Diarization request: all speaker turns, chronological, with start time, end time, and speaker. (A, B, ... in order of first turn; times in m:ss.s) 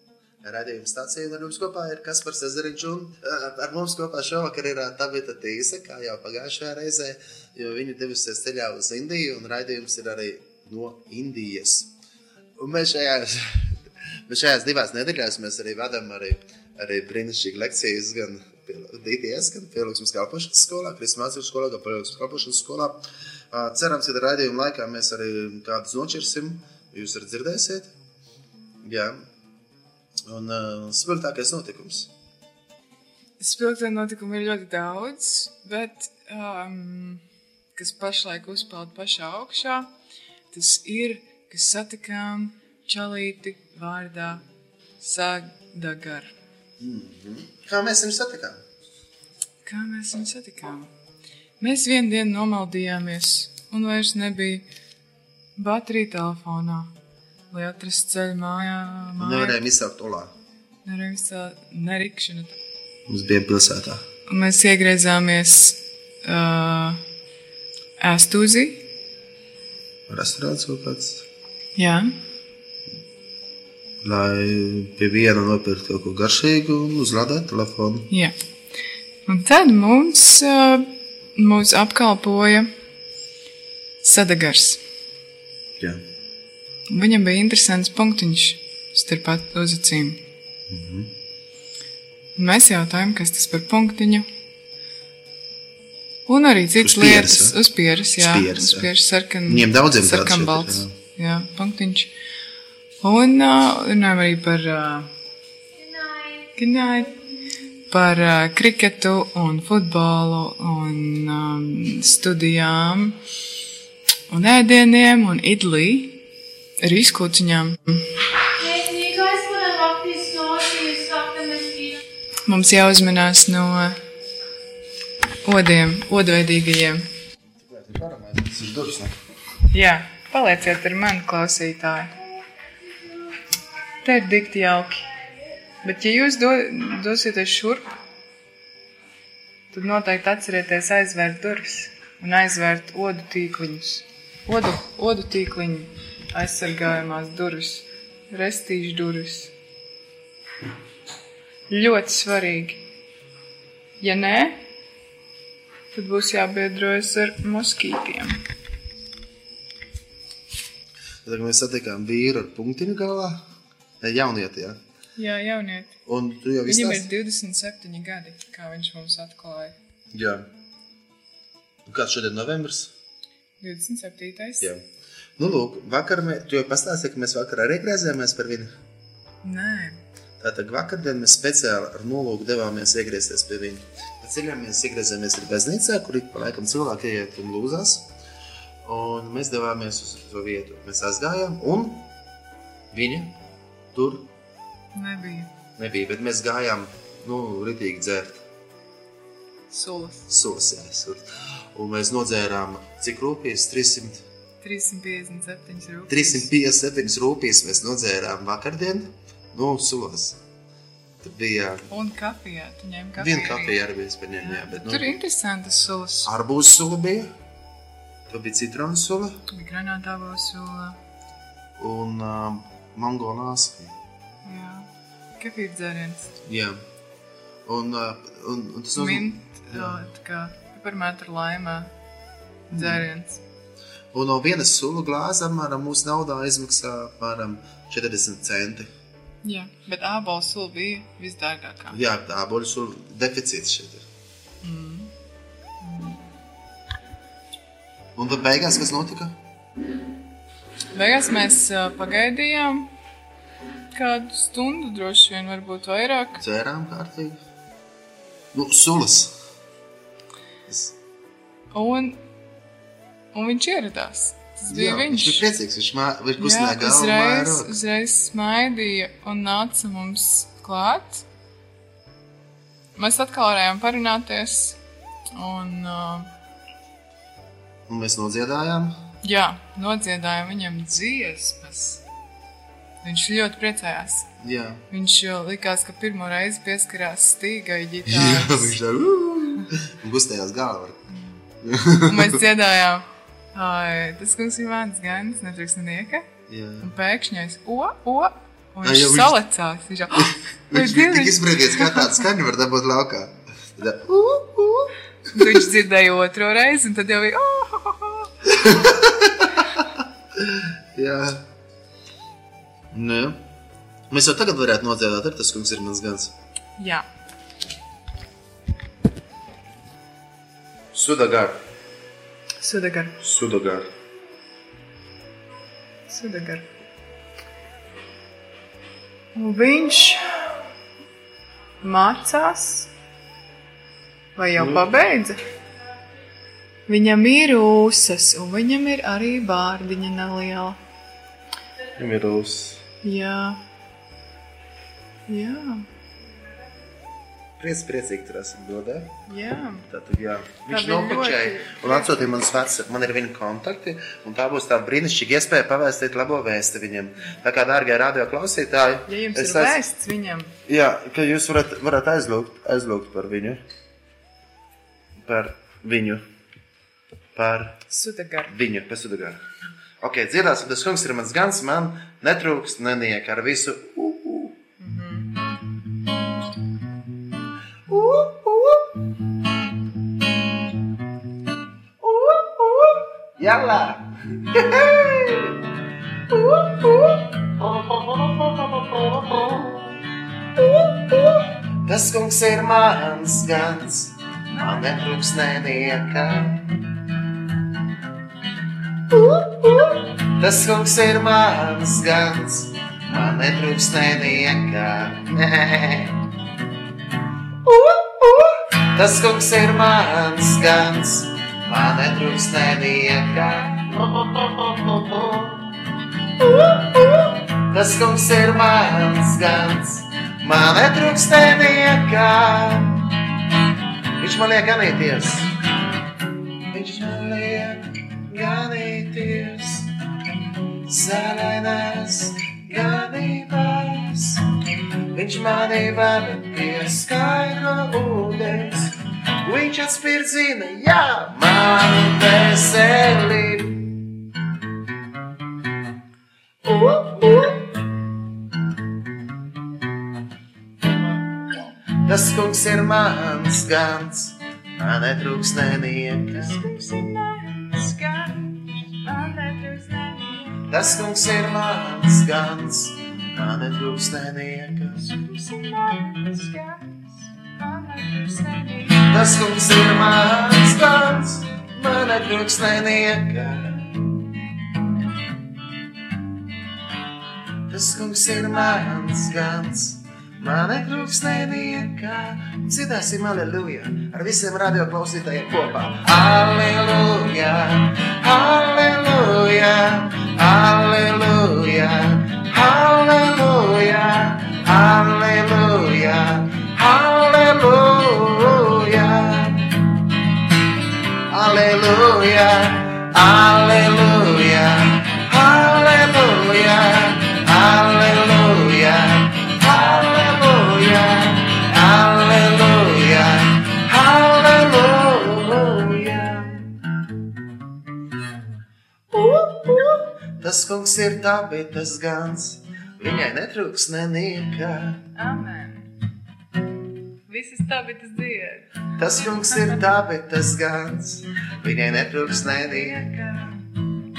0:00.4-0:11.9 A
0:12.6-0:27.9 A
0:28.8-0:29.3 A
0:30.2-0:32.1 A
0:33.4-0:37.2 B
0:37.8-0:39.9 B
0:40.5-0:44.4 B
0:45.0-0:46.3 B
0:46.8-0:48.6 A
0:49.6-0:50.9 B
0:51.6-0:54.6 B
0:55.6-0:56.9 B
0:57.5-0:59.6 B
0:59.2-1:00.3 A
1:00.8-1:02.6 B
1:03.1-1:04.0 A
1:04.3-1:07.0 B
1:08.0-1:08.8 B
1:10.1-1:11.2 A
1:11.8-1:12.1 B
1:14.0-1:18.1 A
1:19.3-1:22.7 B
1:24.0-1:24.8 B
1:26.9-1:30.2 B
1:30.7-1:31.1 A
1:32.4-1:34.2 B
1:36.3-1:42.1 B
1:36.8-1:37.6 A
1:38.2-1:38.9 A
1:39.5-1:40.9 A
1:43.0-1:45.1 B
1:45.8-1:46.3 C
1:46.6-1:47.1 B
1:47.9-1:53.2 B
1:54.3-1:56.2 B
1:56.8-1:58.0 B
1:58.6-2:02.0 C
2:02.5-2:04.0 B
2:05.4-2:07.0 B
2:07.5-2:09.1 A
2:09.7-2:12.1 B
2:14.0-2:15.0 B
2:15.8-2:17.9 B
2:19.7-2:29.5 B
2:31.7-2:32.8 B
2:34.0-2:34.6 B
2:35.9-2:38.4 B
2:41.2-2:43.4 A
2:44.0-2:44.8 A
2:45.2-2:46.0 B
2:46.0-2:47.1 A
2:46.6-2:49.7 B
2:50.1-2:50.5 A
2:51.8-2:52.9 A
2:53.6-2:54.7 B
2:55.4-2:58.7 A
2:59.4-3:00.0 B
3:00.4-3:08.1 A
3:08.8-3:12.0 A
3:12.9-3:13.3 A
3:13.9-3:14.3 A
3:14.9-3:15.5 B
3:15.8-3:18.4 A
3:19.7-3:20.3 B
3:20.3-3:24.2 A
3:24.6-3:26.5 B
3:26.1-3:30.4 A
3:31.2-3:31.9 A
3:31.9-3:33.8 B
3:33.2-3:35.1 A
3:34.4-3:36.3 B
3:36.2-3:37.3 A
3:38.3-3:39.4 A
3:39.5-3:41.0 B
3:41.8-3:43.9 A
3:44.4-3:44.9 B
3:45.4-3:46.4 B
3:46.4-3:46.8 A
3:47.6-3:50.0 A
3:49.0-3:51.9 B
3:52.7-3:53.4 B
3:52.7-3:53.0 A
3:54.1-3:58.9 A
3:59.4-4:02.0 B
4:01.9-4:04.0 A
4:04.6-4:05.1 B
4:05.8-4:06.2 B
4:08.2-4:09.4 A
4:10.9-4:12.9 B
4:13.9-4:16.4 B
4:16.4-4:17.4 A
4:18.5-4:19.3 A
4:20.7-4:20.9 A
4:21.7-4:22.2 B
4:23.3-4:25.5 B
4:24.7-4:27.8 A
4:26.4-4:31.2 B
4:33.0-4:34.8 B
4:35.3-4:36.3 B
4:37.9-4:39.0 A
4:39.2-4:42.0 B
4:43.0-4:44.3 B
4:44.4-4:44.8 A
4:44.9-4:48.8 B
4:48.0-4:51.0 A
4:51.6-4:52.4 A
4:52.0-4:56.2 B
4:56.5-4:56.9 A
4:56.8-5:02.2 B
4:58.8-4:59.4 A
5:00.2-5:04.9 A
5:05.3-5:08.3 B
5:08.5-5:09.8 A
5:10.4-5:11.4 A
5:12.9-5:13.4 A
5:14.1-5:16.3 A
5:16.8-5:17.1 B
5:20.9-5:21.6 A
5:22.6-5:23.2 B
5:23.2-5:23.9 A
5:26.1-5:26.7 B
5:29.3-5:30.2 B
5:31.8-5:32.9 B
5:34.4-5:35.4 B
5:34.6-5:34.9 A
5:36.9-5:40.8 B
5:42.0-5:42.8 A
5:43.0-5:43.6 B
5:45.3-5:45.8 B
5:47.6-5:49.1 A
5:49.3-5:49.8 B
5:49.9-5:59.8 A
5:50.7-5:52.1 B
5:59.0-6:00.5 B
6:00.7-6:03.6 A
6:05.2-6:06.2 A
6:07.3-6:07.8 A
6:07.9-6:08.5 B
6:08.5-6:09.4 A
6:10.0-6:14.5 A
6:14.8-6:15.3 B
6:17.9-6:18.9 A
6:22.0-6:25.6 A
6:26.3-6:29.8 A
6:30.7-6:36.6 A
6:34.5-6:34.9 B
6:39.2-6:46.2 A
6:47.7-6:55.6 A
6:56.5-7:03.0 A
7:04.2-7:05.5 A
7:06.7-7:09.9 A
7:10.8-7:14.4 A
7:15.1-7:23.9 A
7:26.6-7:27.6 A
7:32.0-7:36.6 A
7:36.3-7:40.7 B
7:40.7-7:45.0 A
7:45.0-7:49.1 B
7:49.1-7:54.0 A
7:57.7-8:19.7 A
8:21.3-8:36.6 A
8:39.2-8:39.9 B
8:40.4-8:45.0 A
8:45.2-8:45.9 B
8:47.3-8:48.7 B
8:49.0-8:53.0 A
8:52.6-8:53.6 B